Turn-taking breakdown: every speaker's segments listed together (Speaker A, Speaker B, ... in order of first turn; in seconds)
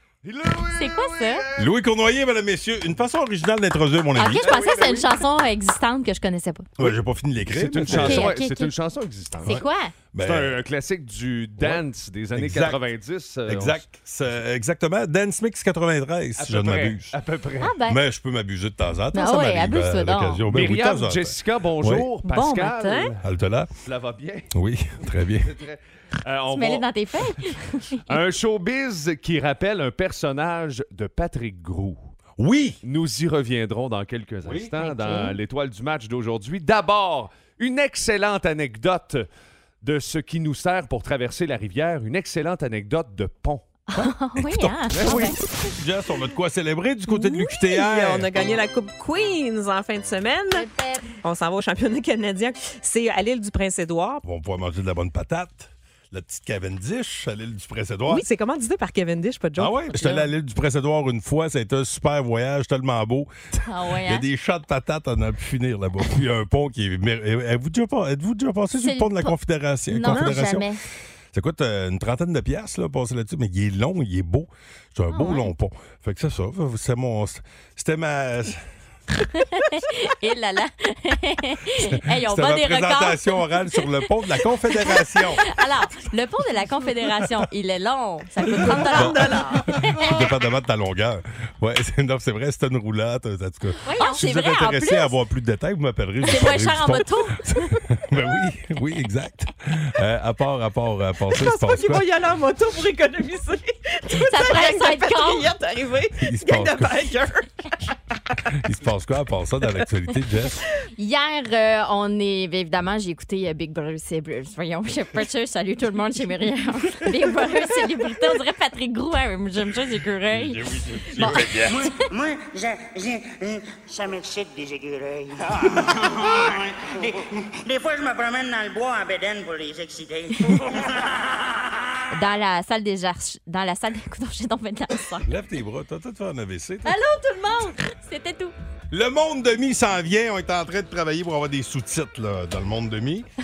Speaker A: 0.2-1.7, 4.2-5.1, 7.4-9.6, 10.2-13.9, 16.4-17.8, 20.5-23.2, 23.8-24.5, 25.2-26.9, 28.1-32.1, 32.8-39.3, 39.8-43.6, 44.9-45.3
Speaker B: 0.7-1.4, 4.1-6.7, 7.9-8.7, 9.4-9.9, 17.6-18.0, 19.1-20.4, 26.5-28.0, 34.8-35.3, 43.9-45.4, 47.1-47.4, 50.5-51.1, 63.6-64.2, 68.8-69.3, 69.9-70.8, 75.1-75.5, 79.3-90.2, 93.8-95.2, 96.2-97.8, 104.2-105.5, 111.0-121.9, 132.1-135.3, 136.8-138.5
Speaker C: 1.6-4.6, 6.8-8.3, 9.4-10.6, 12.3-12.8, 13.4-17.1, 17.8-22.1, 23.2-23.7, 24.5-25.5, 32.4-32.8, 34.4-34.8, 43.9-45.2, 45.8-48.5, 54.2-58.2, 59.5-63.3, 64.0-70.7, 71.3-78.6, 81.8-85.5, 88.9-102.0, 106.2-107.0, 108.5-110.6, 120.3-121.7, 135.2-137.0, 138.9-143.2
Speaker D: 22.2-23.1, 47.5-50.6, 51.2-54.2, 58.1-60.3, 70.1-70.4, 88.7-89.6, 101.3-107.5
Speaker E: 121.7-131.1